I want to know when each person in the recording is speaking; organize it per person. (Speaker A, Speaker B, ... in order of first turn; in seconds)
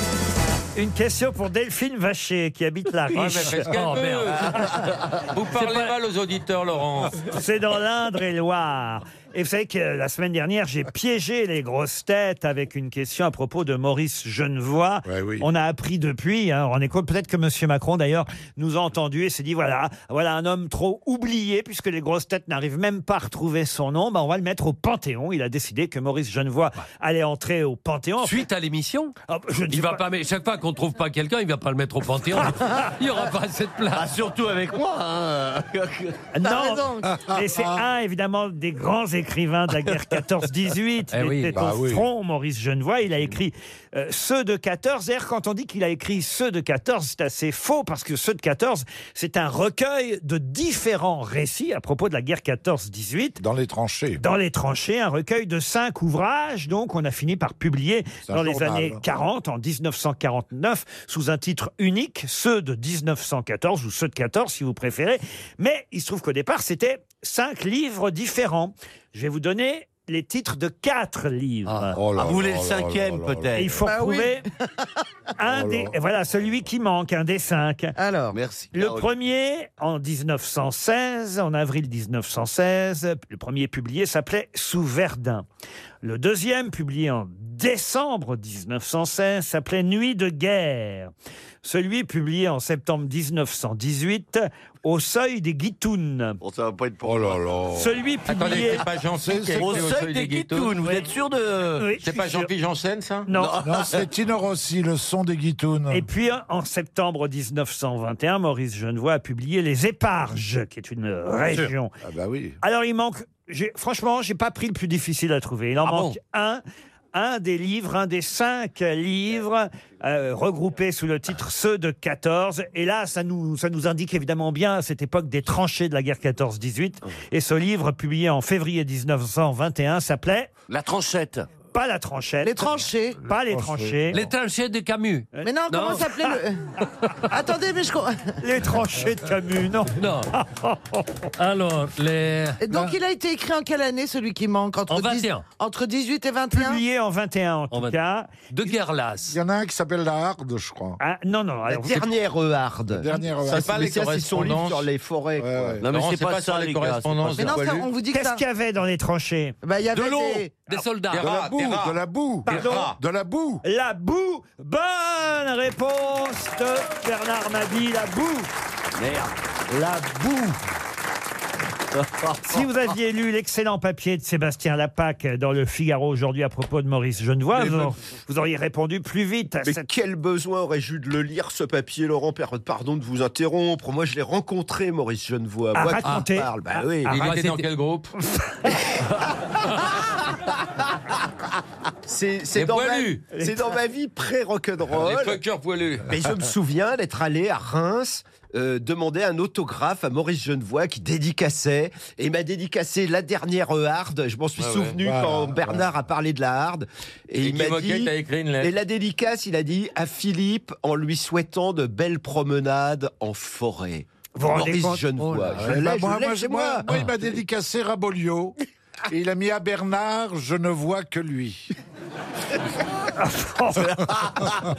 Speaker A: 0.8-3.7, 7.2-28.4, 29.3-30.0, 36.3-53.4, 54.2-72.0, 73.5-74.5, 75.4-78.0, 78.7-85.4, 86.0-91.1, 91.6-96.4, 97.7-98.8, 101.8-102.5, 103.3-103.6, 105.9-111.9, 112.6-116.6, 117.1-130.5, 131.7-134.2, 138.4-141.2, 146.5-148.5, 151.0-152.1, 158.1-159.6, 162.4-162.9, 163.6-168.5, 169.7-170.6, 172.4-179.9, 185.7-187.2, 193.3-193.7, 214.3-215.1, 223.1-224.1
Speaker B: 3.1-7.2, 98.3-101.1, 102.0-103.3, 153.4-154.9, 155.8-157.9, 161.1-162.0, 162.5-163.0, 187.1-188.1, 192.5-193.3, 194.9-196.1, 204.6-205.0, 207.4-208.8
Speaker C: 3.5-4.8, 5.5-5.9, 28.2-29.1, 29.7-34.1, 41.1-41.5, 71.7-71.9, 134.1-136.1, 140.0-140.3, 141.4-142.6, 144.9-145.4, 147.7-148.0, 148.5-149.4, 160.7-161.2, 187.1-187.7, 215.2-215.7
Speaker D: 15.0-15.5, 37.1-37.7, 41.5-42.0, 53.4-54.2, 58.2-59.0, 71.9-73.7, 75.4-75.9, 97.0-97.9, 99.2-99.9, 103.6-106.0, 112.0-112.6, 133.3-134.1, 142.7-142.9, 149.3-151.0, 152.9-154.0, 155.4-155.8, 161.1-163.6, 205.0-205.9, 215.5-218.6, 219.1-221.7
Speaker E: 33.9-36.3, 72.2-73.8, 78.3-79.1, 96.4-97.4, 99.5-101.9, 103.3-104.0, 130.7-131.5, 155.8-157.6, 159.9-160.4, 168.9-169.3, 171.9-172.6
Speaker F: 36.4-37.1, 73.8-74.9, 78.0-78.4, 132.4-133.2, 135.4-136.6, 137.3-138.3, 142.6-146.8, 157.4-158.4, 159.6-160.5
Speaker G: 151.7-155.8, 179.6-187.2, 192.0-195.4, 196.1-216.9